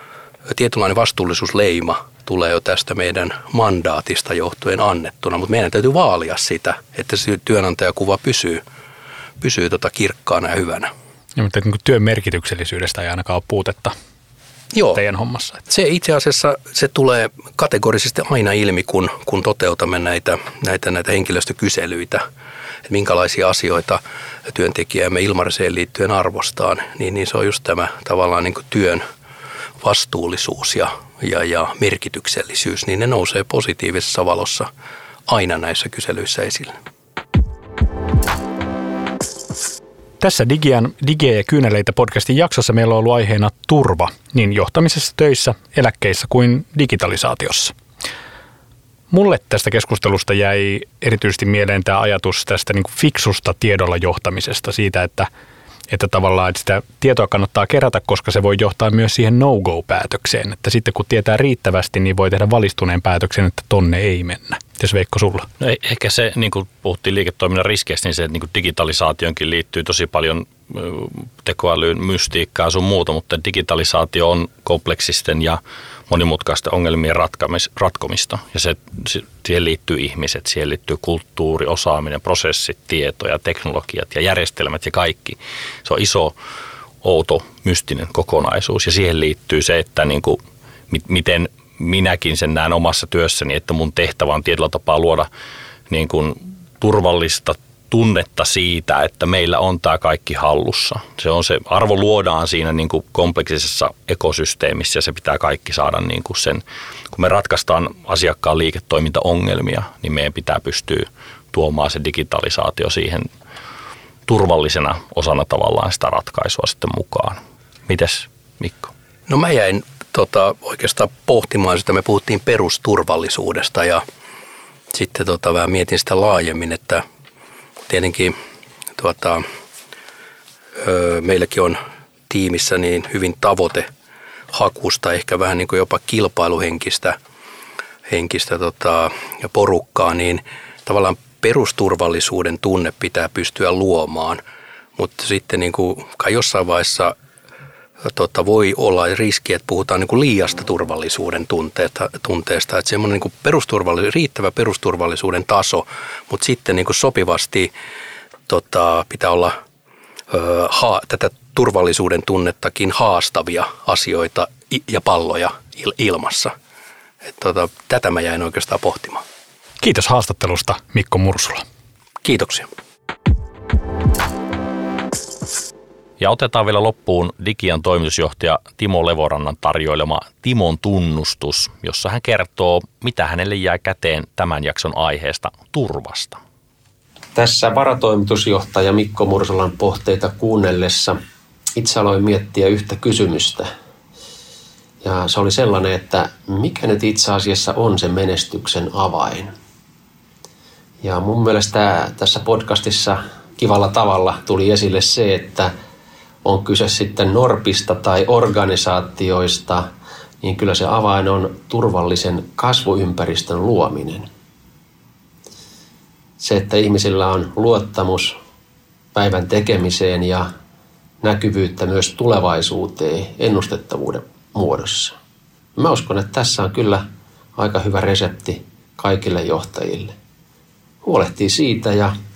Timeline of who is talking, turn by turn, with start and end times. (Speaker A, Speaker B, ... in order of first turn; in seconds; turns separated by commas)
Speaker A: 0.5-8.6, Speaker A: 9.4-10.9, Speaker B: 11.3-13.9, Speaker A: 14.7-15.0, Speaker B: 14.9-15.6, Speaker A: 15.7-22.2, Speaker A: 22.9-29.0, Speaker A: 29.8-34.7, Speaker A: 35.3-36.7, Speaker B: 40.2-47.7, Speaker B: 49.1-55.3, Speaker B: 55.9-65.5, Speaker C: 65.6-86.3, Speaker C: 87.0-95.3, Speaker C: 95.9-113.3, Speaker C: 114.3-118.9, Speaker A: 119.3-124.0, Speaker A: 124.9-127.0, Speaker A: 127.9-128.3, Speaker A: 129.0-129.4, Speaker A: 130.8-133.9, Speaker A: 134.5-137.2, Speaker A: 138.1-144.4, Speaker A: 144.9-147.1, Speaker A: 148.0-157.7, Speaker A: 158.5-159.5, Speaker A: 160.3-166.5, Speaker A: 167.3-169.2, Speaker B: 169.8-171.6, Speaker A: 172.2-172.7, Speaker C: 176.2-186.4, Speaker D: 187.3-191.2, Speaker D: 191.8-193.7, Speaker D: 195.0-199.5, Speaker D: 201.0-205.7, Speaker D: 206.4-209.9, Speaker D: 210.4-214.3, Speaker D: 216.4-218.4, Speaker D: 219.1-220.5, Speaker D: 221.2-225.1, Speaker D: 225.8-227.0, Speaker D: 227.6-230.1, Speaker D: 231.0-232.1